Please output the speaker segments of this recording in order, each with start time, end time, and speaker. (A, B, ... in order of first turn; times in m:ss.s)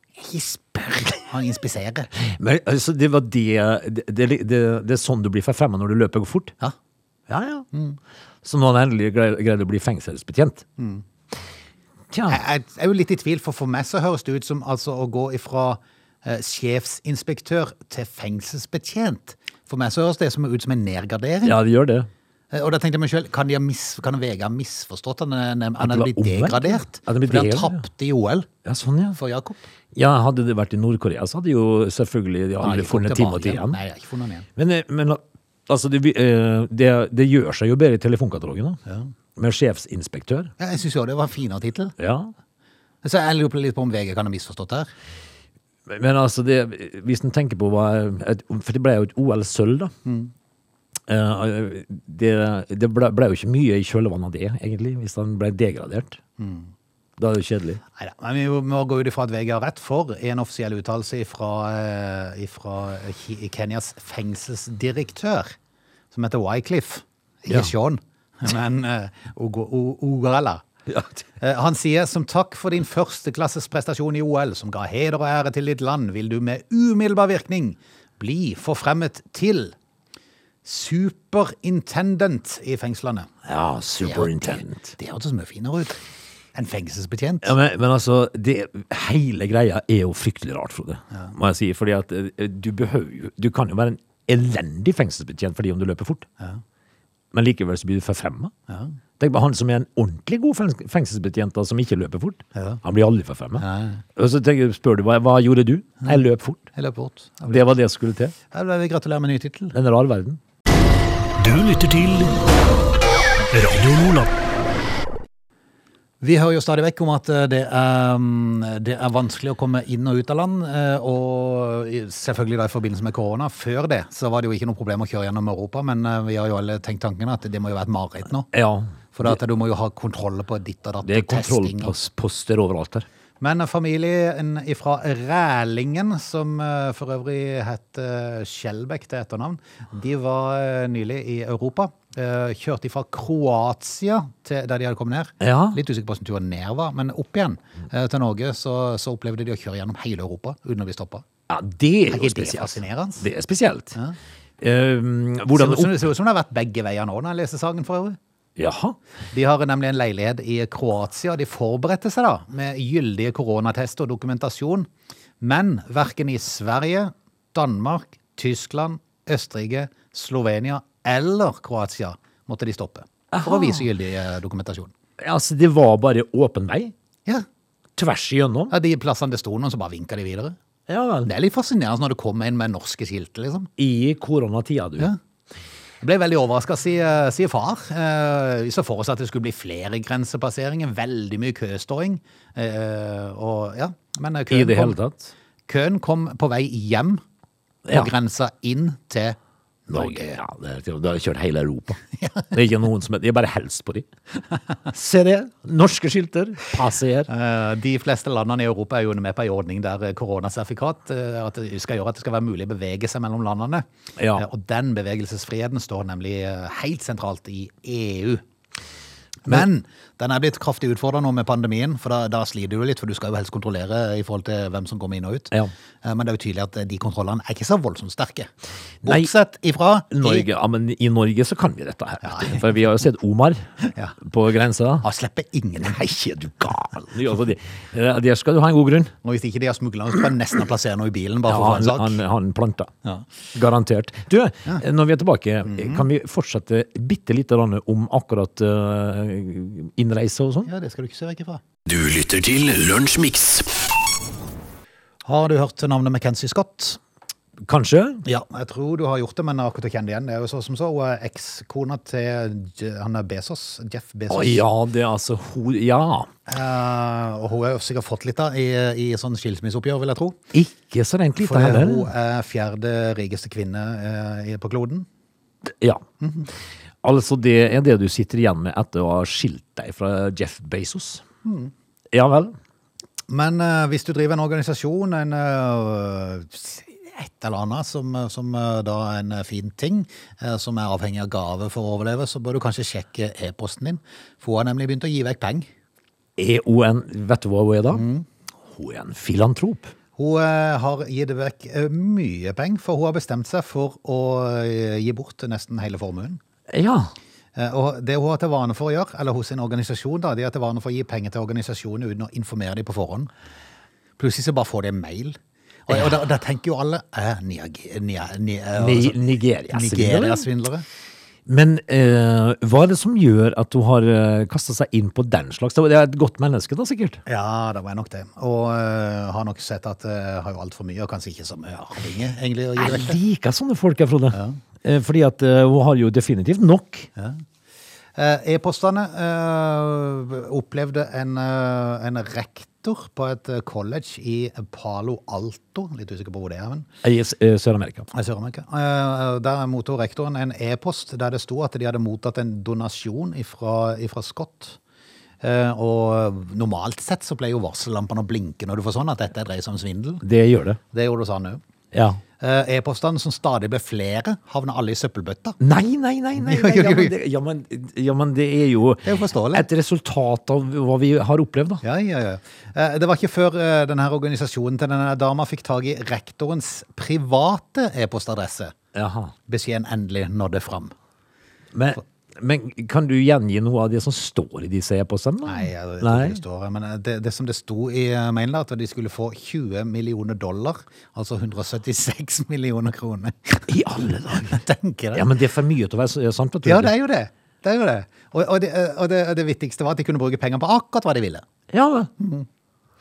0:00.3-0:02.1 A
0:02.2-0:06.6 B
0:07.3-0:07.7 B
0:07.7-0:08.0 A
0:08.4-0:10.6 B
0:10.8-0:11.0 A
0:12.1-0:12.4 B
0:12.3-0:21.6 A
0:21.4-0:22.1 B
0:22.5-0:28.5 A
0:25.8-0:27.8 B
0:28.6-0:29.2 B
0:29.2-0:29.6 A
0:29.9-0:33.8 B
0:32.6-0:34.5 A
0:34.6-0:38.8 B
0:38.9-0:39.1 A
0:39.4-0:40.5 B
0:40.6-0:41.9 A
0:42.0-0:42.3 B
0:43.0-0:44.9 A
0:45.9-0:49.9 B
0:50.0-0:50.3 A
0:51.1-0:56.2 B
0:56.4-0:56.7 A
0:57.2-0:57.8 B
0:58.0-1:05.6 A
1:06.1-1:10.6 A
1:10.9-1:11.2 B
1:11.4-1:19.8 A
1:20.6-1:23.3 A
1:23.5-1:25.0 B
1:24.0-1:26.0 A
1:26.6-1:27.5 A
1:27.4-1:36.3 B
1:37.3-1:38.5 B
1:38.7-1:39.0 A
1:39.2-1:43.6 B
1:42.6-1:42.8 A
1:43.6-1:44.0 A
1:44.2-1:46.7 B
1:46.8-1:47.7 A
1:47.5-1:48.3 B
1:48.5-1:49.8 A
1:49.7-1:50.4 B
1:51.4-1:52.4 C
1:53.5-1:54.3 C
1:56.2-2:08.5 A
2:08.5-2:09.4 B
2:09.1-2:12.0 A
2:11.0-2:13.1 B
2:13.4-2:31.2 A
2:25.4-2:25.8 B
2:31.5-2:34.0 B
2:32.1-2:33.3 A
2:34.6-2:36.1 B
2:35.5-2:38.2 A
2:38.6-2:39.0 B
2:39.3-2:44.9 A
2:45.4-2:54.9 A
2:53.3-2:53.8 B
2:55.2-2:56.9 B
2:58.0-2:58.7 B
2:58.7-3:00.6 A
3:00.9-3:01.3 B
3:01.2-3:03.7 A
3:03.8-3:05.1 B
3:06.0-3:15.0 A
3:14.5-3:15.3 B
3:15.7-3:17.2 A
3:17.9-3:20.4 A
3:19.9-3:24.1 B
3:22.2-3:22.5 A
3:24.9-3:27.3 B
3:27.3-3:38.4 A
3:34.2-3:34.5 B
3:39.4-3:48.5 A
3:49.0-3:49.3 B
3:49.0-3:50.5 A
3:50.1-3:53.6 B
3:52.2-3:52.6 A
3:53.9-3:54.2 A
3:54.2-3:55.0 B
3:55.0-3:57.0 A
3:56.6-3:59.1 B
3:59.2-4:02.2 A
4:01.5-4:02.9 B
4:03.5-4:10.7 B
4:05.7-4:06.1 A
4:10.7-4:11.6 A
4:11.9-4:13.7 C
4:15.2-4:17.0 A
4:17.6-4:18.2 B
4:18.2-4:24.6 A
4:24.3-4:26.3 B
4:26.5-4:30.4 A
4:30.5-4:32.1 B
4:31.4-4:35.1 A
4:35.7-4:36.0 B
4:36.2-4:36.5 A
4:37.0-4:41.2 B
4:41.4-4:41.7 A
4:42.1-4:42.6 B
4:43.3-4:55.7 A
4:56.4-4:58.0 B
4:57.9-4:58.3 A
4:58.7-4:59.9 B
5:00.2-5:06.4 A
5:06.7-5:07.1 B
5:07.6-5:13.3 A
5:14.2-5:19.2 A
5:18.8-5:20.5 B
5:19.7-5:20.8 A
5:21.5-5:27.2 B
5:27.3-5:33.2 A
5:32.8-5:37.1 B
5:34.3-5:34.6 A
5:37.2-5:37.4 A
5:38.2-5:46.9 A
5:47.0-5:48.1 B
5:48.1-5:54.8 A
5:55.4-6:00.2 A
6:00.2-6:00.8 B
6:00.9-6:01.6 A
6:01.9-6:02.2 B
6:02.4-6:05.6 A
6:05.6-6:11.8 B
6:06.4-6:07.1 A
6:09.0-6:09.7 A
6:11.8-6:18.8 A
6:18.9-6:19.3 B
6:19.5-6:20.9 A
6:21.7-6:26.4 B
6:25.5-6:33.7 A
6:33.7-6:34.6 B
6:34.4-6:35.3 A
6:35.1-6:36.9 B
6:36.6-6:41.4 A
6:41.7-6:42.1 B
6:42.2-6:42.5 A